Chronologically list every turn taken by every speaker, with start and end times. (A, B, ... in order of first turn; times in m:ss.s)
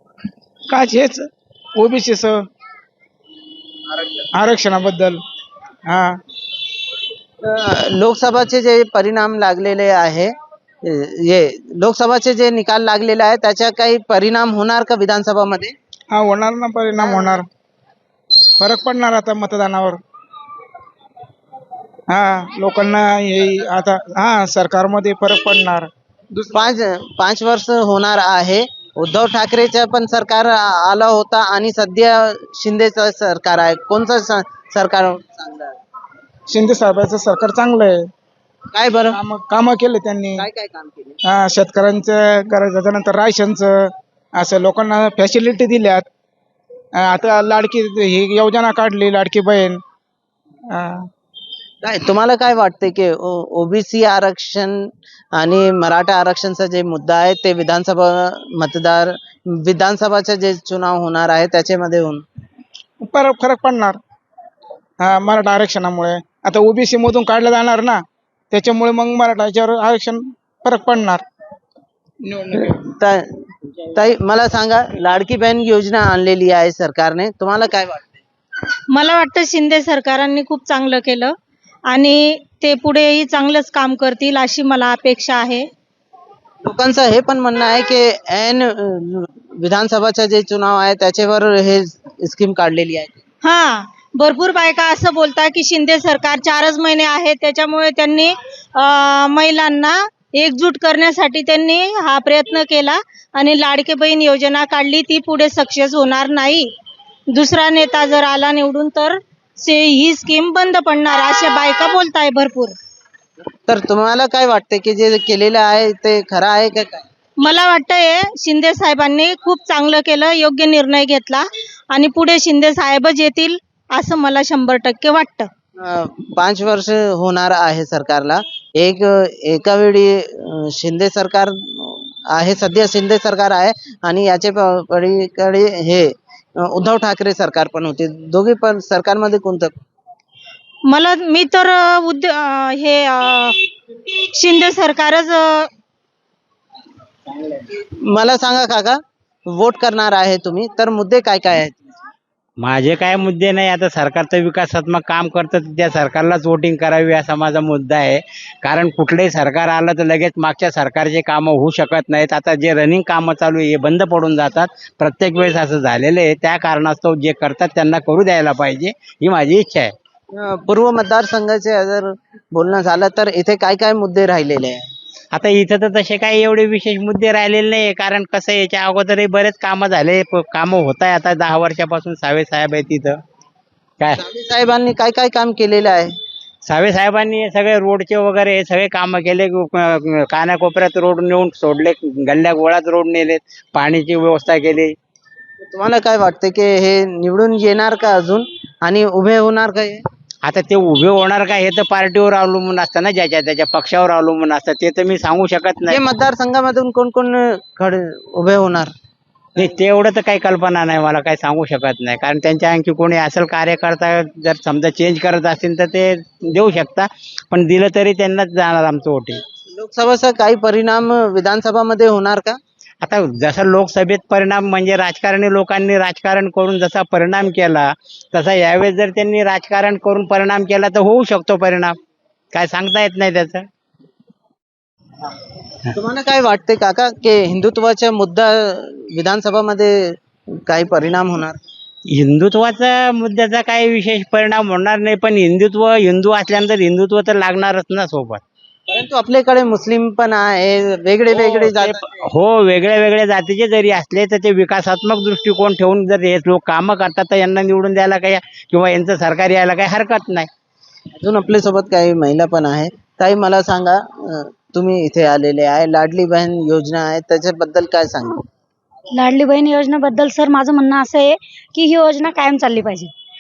0:00.7-0:02.4 A
0:04.3-0:05.2 A
0:05.9-0:06.2 A
0:07.4-0:10.3 B
0:10.8-0:15.7 B
0:16.1-0:17.4 A
0:17.0-0:17.4 B
0:18.6-0:20.0 A
0:22.1-0:26.4 A
0:26.5-0:35.8 B
0:36.5-0:38.1 A
0:38.7-0:39.2 B
0:39.1-0:40.4 A
0:40.4-0:41.2 B
0:41.2-0:43.8 A
0:44.4-0:46.1 A
0:47.0-0:49.8 A
0:50.8-0:51.1 A
0:51.8-1:02.2 B
1:03.0-1:04.0 A
1:05.0-1:08.0 A
1:08.5-1:11.2 A
1:12.3-1:12.7 A
1:12.6-1:13.4 B
1:13.9-1:18.2 B
1:18.9-1:21.4 C
1:21.9-1:25.7 C
1:26.6-1:33.2 B
1:33.4-1:46.7 C
1:47.3-1:52.8 C
1:53.7-1:57.0 B
1:57.4-2:05.5 C
2:05.8-2:19.8 B
2:20.9-2:23.6 C
2:24.1-2:25.7 C
2:27.6-2:32.0 B
2:32.6-2:49.9 D
2:50.3-2:54.9 B
2:55.3-3:03.2 D
3:04.2-3:06.1 B
3:06.6-3:15.0 D
3:15.7-3:20.0 B
3:20.4-3:26.0 D
3:25.9-3:28.9 B
3:29.6-3:39.4 D
3:39.7-3:42.6 B
3:43.0-3:52.0 D
3:52.5-3:53.7 D
3:55.9-4:00.1 B
4:00.7-4:01.6 B
4:02.1-4:08.4 D
4:08.9-4:12.0 B
4:11.3-4:20.5 D
4:21.2-4:28.4 B
4:29.1-4:33.1 E